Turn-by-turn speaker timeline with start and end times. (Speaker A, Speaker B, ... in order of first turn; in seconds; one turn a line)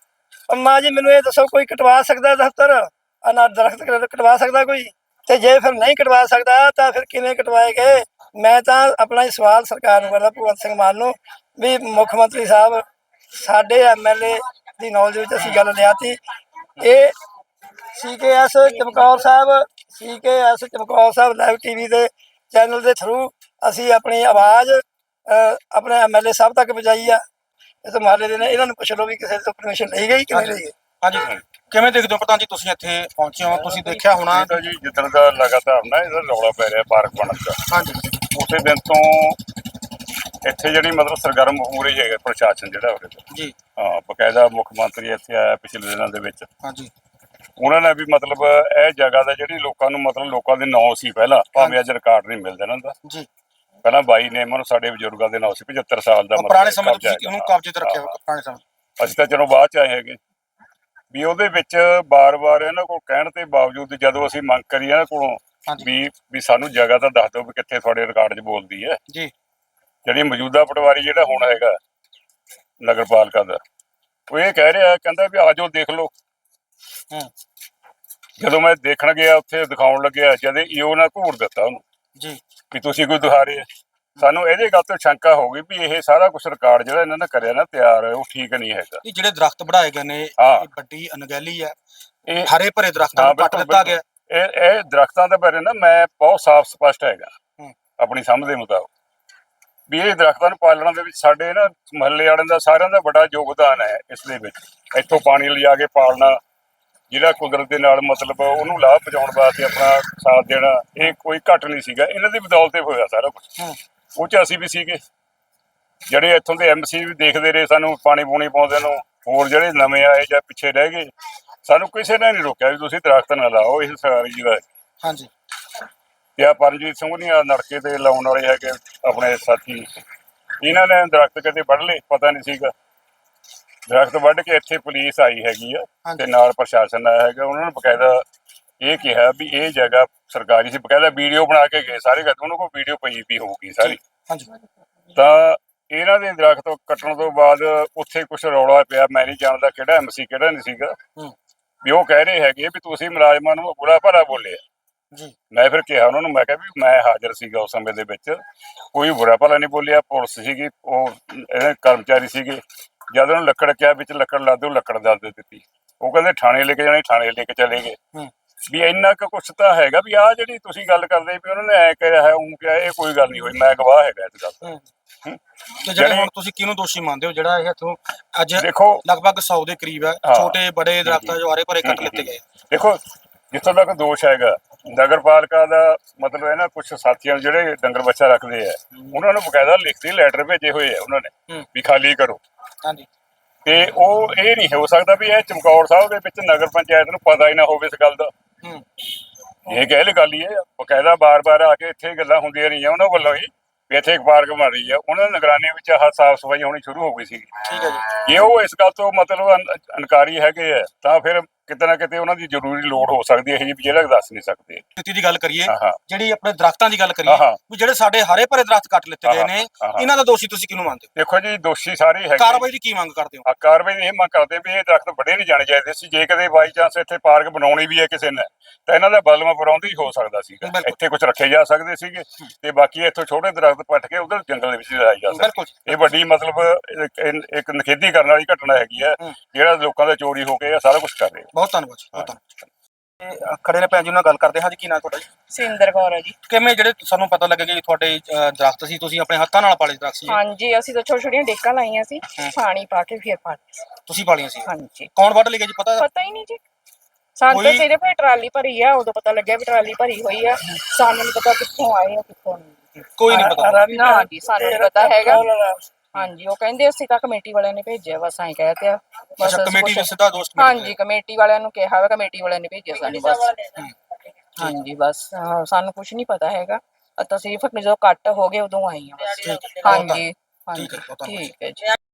Speaker A: 0.5-16.2
Speaker A: 16.8-17.1
Speaker A: 17.9-27.2
Speaker A: 27.8-30.7
Speaker B: 30.3-34.5
Speaker C: 33.6-37.6
Speaker B: 37.7-38.0
Speaker C: 38.3-39.4
Speaker C: 40.4-43.2
Speaker B: 43.3-43.5
Speaker C: 43.8-46.5
Speaker B: 46.6-46.9
Speaker C: 47.6-52.9
Speaker C: 53.8-58.1
Speaker B: 56.3-58.6
Speaker C: 59.0-60.2
Speaker C: 61.1-69.0
Speaker C: 70.0-71.8
Speaker C: 72.8-73.6
Speaker C: 74.3-76.1
Speaker C: 78.4-81.8
Speaker C: 82.7-83.7
Speaker C: 84.2-89.0
Speaker B: 89.0-91.7
Speaker C: 90.4-90.7
Speaker B: 92.4-94.0
Speaker C: 93.2-97.3
Speaker C: 98.0-98.9
Speaker C: 99.9-106.4
Speaker C: 107.1-113.5
Speaker C: 114.2-115.0
Speaker C: 116.1-121.1
Speaker C: 121.6-124.6
Speaker B: 125.0-125.3
Speaker C: 126.4-129.9
Speaker C: 130.6-132.7
Speaker C: 133.9-138.2
Speaker C: 138.8-144.0
Speaker B: 143.8-144.5
Speaker C: 145.1-151.0
Speaker C: 151.8-154.6
Speaker C: 155.5-158.4
Speaker C: 158.9-168.0
Speaker C: 168.7-174.6
Speaker B: 175.8-182.4
Speaker C: 176.0-176.3
Speaker C: 178.6-179.0
Speaker C: 180.2-183.0
Speaker C: 183.5-192.4
Speaker B: 192.8-193.1
Speaker C: 193.6-198.3
Speaker C: 199.7-207.5
Speaker B: 207.7-208.1
Speaker C: 208.1-214.8
Speaker B: 215.0-221.1
Speaker C: 215.7-216.0
Speaker C: 217.2-217.6
Speaker C: 219.2-220.1
Speaker C: 221.2-222.7
Speaker B: 222.4-223.4
Speaker C: 223.4-241.5
Speaker B: 230.6-231.0
Speaker B: 235.3-235.8
Speaker B: 241.5-242.4
Speaker B: 243.2-245.2
Speaker D: 245.5-246.3
Speaker B: 246.5-250.4
Speaker D: 250.3-253.6
Speaker B: 254.1-256.1
Speaker D: 254.7-255.1
Speaker D: 255.9-256.6
Speaker D: 257.4-262.8
Speaker B: 257.5-257.9
Speaker B: 263.1-263.9
Speaker A: 263.3-265.8
Speaker D: 263.9-265.4
Speaker D: 266.1-273.7
Speaker B: 269.4-270.9
Speaker D: 274.6-281.9
Speaker B: 279.4-280.2
Speaker B: 280.7-281.4